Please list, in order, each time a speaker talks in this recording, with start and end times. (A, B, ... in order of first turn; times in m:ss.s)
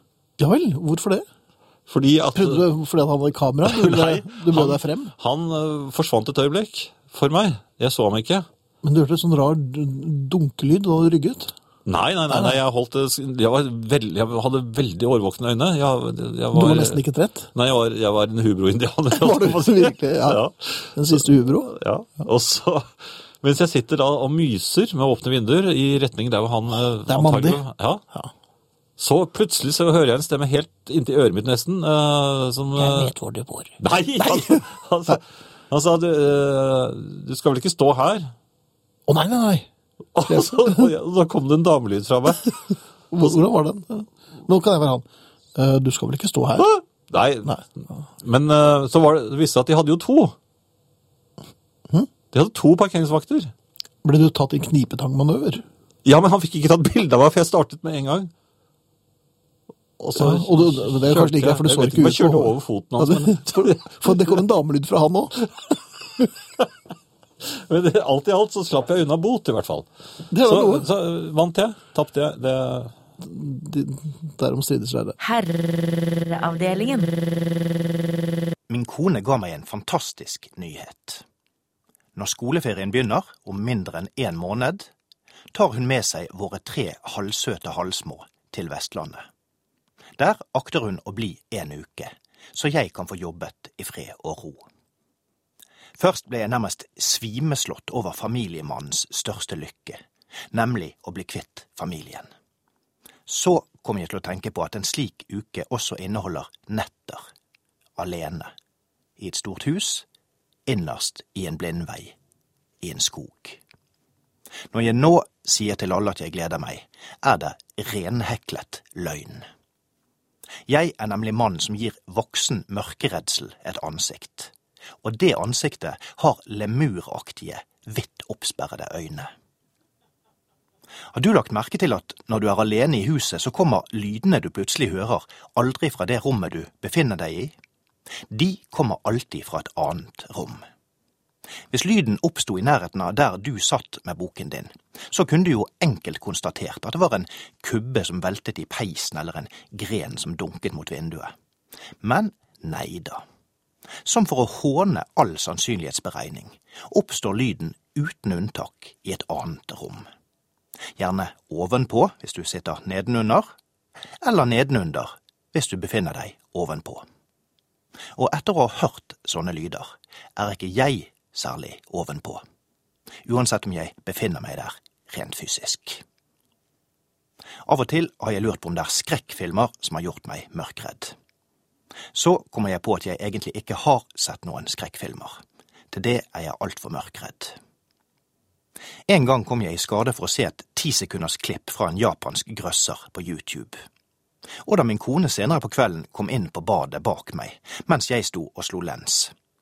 0:00.4-0:01.2 A
0:01.9-0:02.7 B
0:02.3-0:05.2 A
0:03.6-0:08.5 B
0:08.8-0:11.5 A
0:11.8-0:17.0 B
0:12.3-0:12.6 A
0:16.5-0:17.5 A
0:17.5-0:28.0 B
0:19.1-0:20.4 A
0:20.9-0:21.7 A
0:27.1-0:28.3 A
0:29.0-0:33.1 B
0:32.8-0:35.1 A
0:33.8-0:38.3 B
0:39.1-0:39.7 A
0:40.2-0:42.6 B
0:40.3-0:40.9 A
0:43.1-0:46.7 A
0:46.6-0:47.6 B
0:48.2-0:50.4 B
0:52.3-0:53.5 B
0:54.0-0:55.6 A
0:56.0-0:58.3 B
1:00.0-1:04.4 B
1:00.2-1:05.5 A
1:07.4-1:09.9 B
1:10.3-1:10.9 A
1:10.4-1:13.0 B
1:13.2-1:15.2 A
1:15.2-1:18.2 C
1:18.7-1:21.2 D
1:22.2-1:24.9 D
1:25.5-1:29.2 D
1:30.2-1:34.6 D
1:36.0-1:40.0 D
1:40.5-1:42.3 D
1:43.3-1:47.2 D
1:48.0-1:48.5 D
1:49.2-1:50.1 D
1:50.7-1:52.2 D
1:52.8-1:53.6 D
1:54.7-1:59.4 D
2:00.7-2:04.5 D
2:05.0-2:09.3 D
2:11.1-2:17.5 D
2:18.3-2:20.6 D
2:21.7-2:31.3 D
2:32.0-2:33.2 D
2:34.0-2:40.1 D
2:41.0-2:43.5 D
2:44.2-2:47.0 D
2:48.2-2:52.4 D
2:53.2-2:56.0 D
2:57.6-3:01.1 D
3:02.1-3:05.4 D
3:05.9-3:07.6 D
3:09.1-3:13.8 D
3:14.7-3:19.3 D